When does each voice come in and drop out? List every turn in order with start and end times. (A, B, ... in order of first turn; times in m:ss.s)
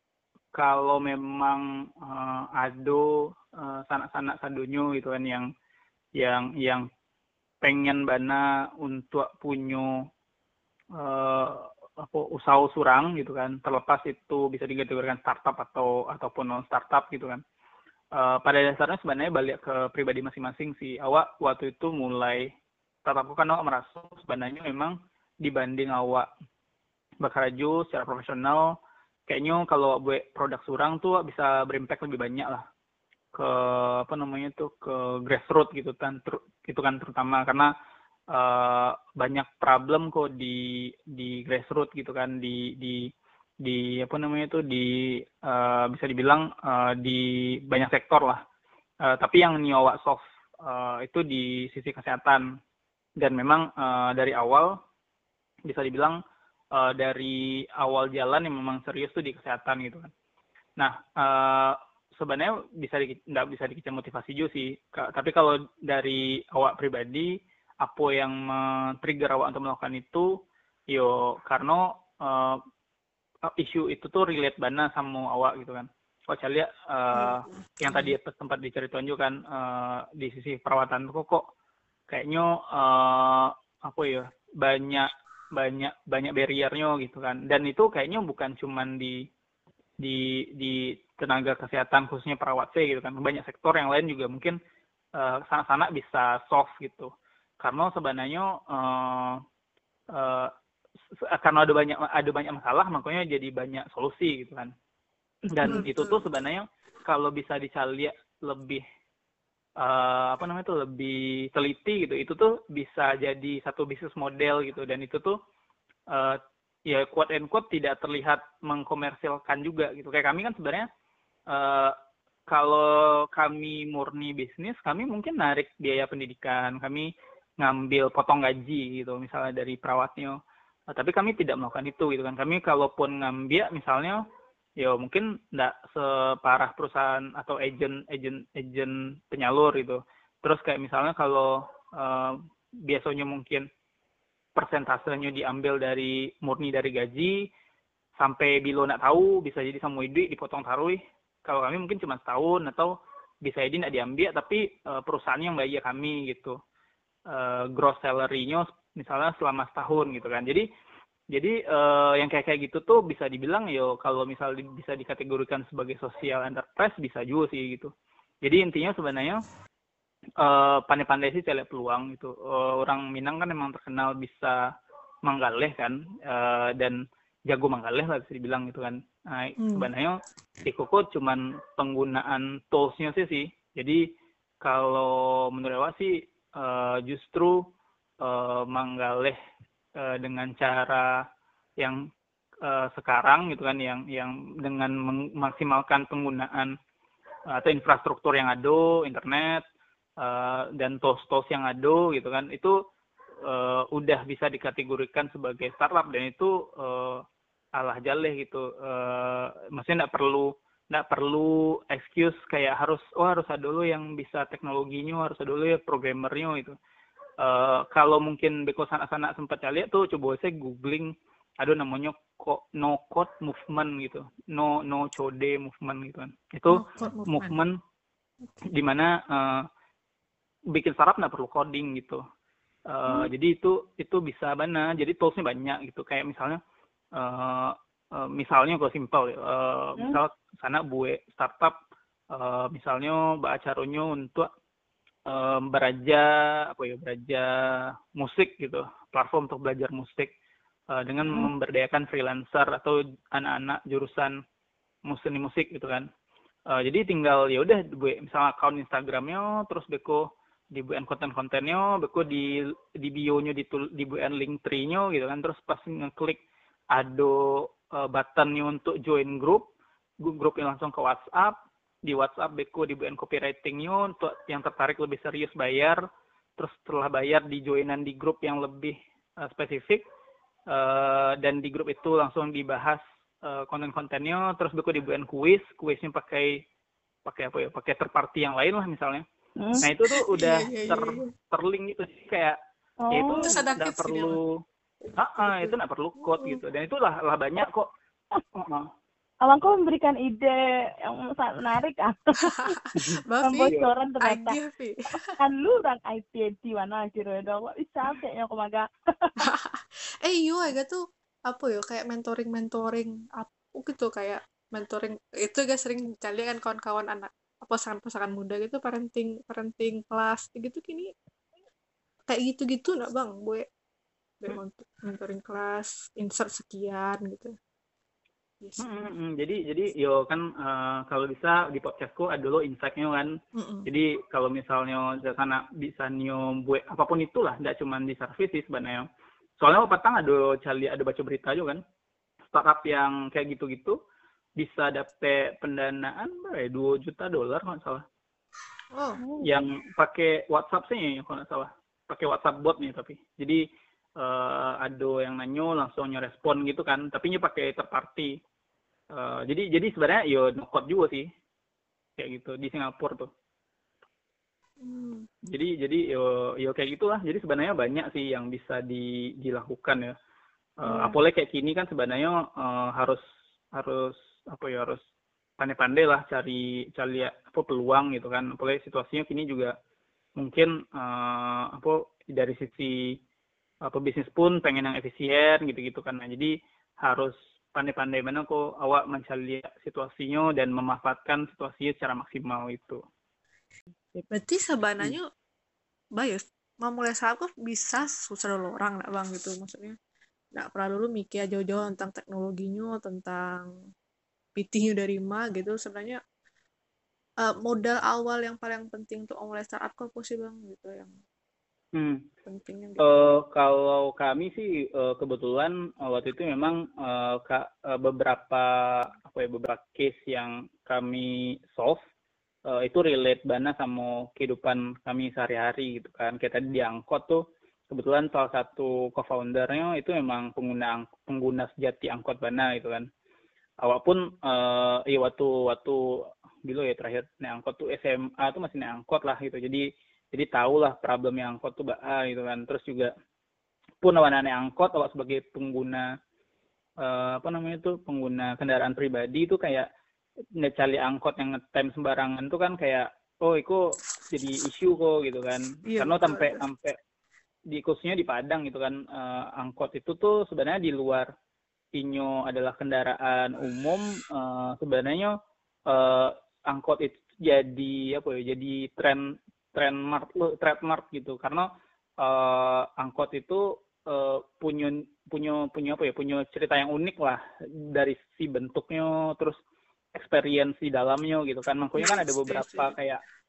0:00.5-0:05.5 A
0:06.2-0:06.9 A
0:07.6-0:10.0 A
0:11.0-0:17.4 A
0:18.1-0:22.5 A
0:23.0-0:26.3 A
0:27.2-0:28.8 A
0:29.3-0:32.6 A
0:33.3-0:37.7 A
0:38.3-0:43.1 A
0:43.6-0:48.4 A
0:49.0-0:52.5 A
0:53.2-0:54.8 A
0:55.7-0:56.2 A
0:56.7-1:00.1 A
1:00.8-1:10.3 A
1:10.9-1:12.6 A
1:13.4-1:21.5 A
1:22.1-1:29.2 A
1:30.0-1:34.6 A
1:35.2-1:39.4 A
1:40.1-1:40.5 A
1:41.2-1:44.7 A
1:45.5-1:48.8 A
1:45.9-1:46.1 B
1:49.8-1:55.4 A
1:56.1-2:00.9 A
2:01.5-2:02.0 A
2:02.5-2:10.4 A
2:10.9-2:14.2 A
2:14.8-2:23.7 A
2:24.6-2:27.5 A
2:28.2-2:36.6 A
2:37.3-2:40.7 A
2:41.3-2:47.9 A
2:48.4-2:49.4 A
2:50.4-2:54.6 A
2:55.2-3:04.0 A
2:59.6-2:59.9 B
3:04.6-3:07.6 A
3:08.2-3:09.4 A
3:10.0-3:11.2 A
3:11.8-3:12.0 A
3:12.6-3:16.8 A
3:17.5-3:19.6 A
3:20.2-3:22.8 A
3:23.4-3:27.2 A
3:27.8-3:36.8 A
3:37.4-3:47.8 A
3:46.7-3:47.6 B
3:48.7-3:49.7 A
3:50.7-3:52.2 A
3:52.9-3:56.6 A
3:57.2-4:01.8 A
4:02.3-4:04.5 A
4:05.3-4:10.3 A
4:10.9-4:14.4 A
4:15.1-4:16.1 A
4:16.7-4:26.4 A
4:26.9-4:29.7 A
4:30.2-4:36.0 A
4:36.6-4:40.0 A
4:40.7-4:46.6 A
4:47.3-4:49.2 A
4:49.6-4:49.8 C
4:49.8-4:52.6 A
4:50.1-4:51.2 B
4:53.0-4:53.5 C
4:53.1-4:54.6 A
4:53.3-4:54.4 B
4:55.0-4:55.8 B
4:55.2-4:57.9 A
4:58.5-4:58.9 A
4:59.4-5:02.8 C
5:02.5-5:03.7 B
5:03.0-5:03.9 A
5:03.4-5:04.6 C
5:04.2-5:05.0 B
5:05.4-5:09.4 C
5:09.4-5:21.1 B
5:22.3-5:23.6 B
5:24.4-5:27.5 B
5:28.8-5:33.3 A
5:33.5-5:33.9 B
5:33.9-5:39.1 A
5:39.6-5:41.8 A
5:42.5-5:44.0 A
5:44.6-5:48.0 A
5:48.9-5:49.2 B
5:49.4-5:53.6 A
5:54.2-5:58.4 A
5:59.1-6:01.3 A
6:02.2-6:03.3 A
6:04.8-6:05.3 B
6:05.5-6:10.1 A
6:10.8-6:13.2 A
6:10.8-6:11.2 C
6:13.7-6:15.0 A
6:15.6-6:19.7 A
6:20.4-6:23.2 A
6:23.8-6:33.0 A
6:34.3-6:35.3 B
6:36.2-6:40.0 B
6:40.5-6:43.7 B
6:44.6-6:46.2 B
6:47.4-6:51.1 B
6:51.9-6:52.3 A
6:52.5-6:53.1 B
6:53.0-7:02.0 A
7:02.7-7:13.1 A
7:13.8-7:23.1 A
7:24.0-7:26.1 A
7:27.0-7:29.9 A
7:30.6-7:37.0 A
7:35.8-7:36.6 B
7:37.7-7:41.3 A
7:41.9-7:45.3 A
7:45.9-7:51.7 A
7:52.2-7:59.6 A
8:00.1-8:03.2 A
8:02.0-8:02.9 B